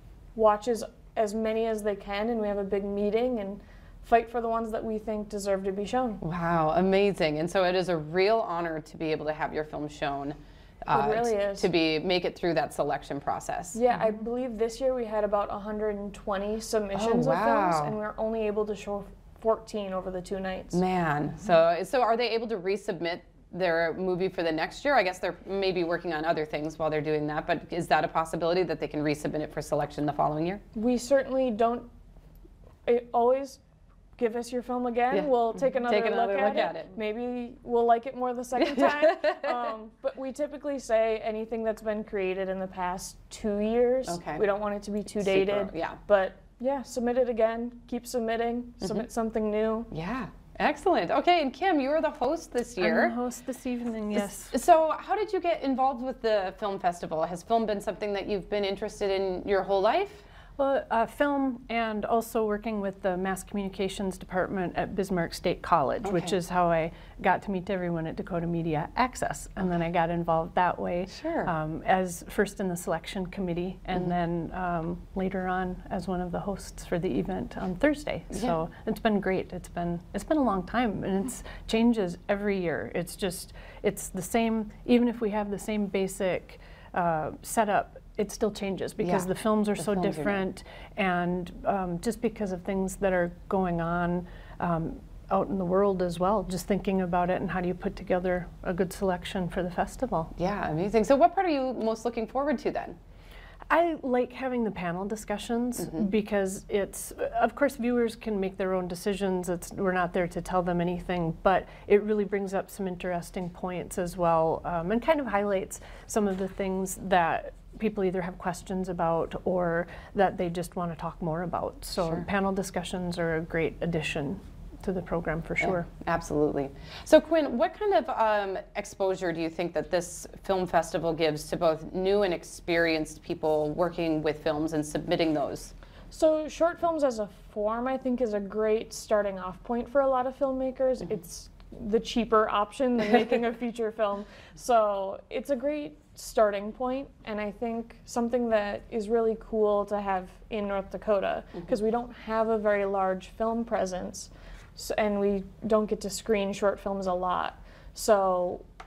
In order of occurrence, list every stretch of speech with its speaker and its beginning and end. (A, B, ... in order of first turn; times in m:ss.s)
0:00.4-0:06.2 A
0:06.2-0:13.8 B
0:10.9-0:11.7 A
0:13.7-0:20.8 A
0:16.9-0:18.0 B
0:20.7-0:30.6 B
0:30.8-0:31.9 A
0:32.9-0:33.6 A
0:34.2-0:49.9 A
0:35.1-0:36.9 B
0:38.6-0:39.7 B
0:44.1-0:44.4 B
0:45.1-0:46.0 B
0:48.8-0:49.1 B
0:49.9-0:53.2 B
0:52.8-0:54.5 C
0:54.2-1:00.2 B
1:00.6-1:40.3 C
1:06.0-1:06.4 B
1:11.1-1:11.5 B
1:18.3-1:18.6 B
1:29.0-1:30.4 B
1:40.4-1:43.0 B
1:43.7-2:05.9 C
2:02.0-2:02.3 B
2:05.6-2:15.7 B
2:16.1-2:38.6 A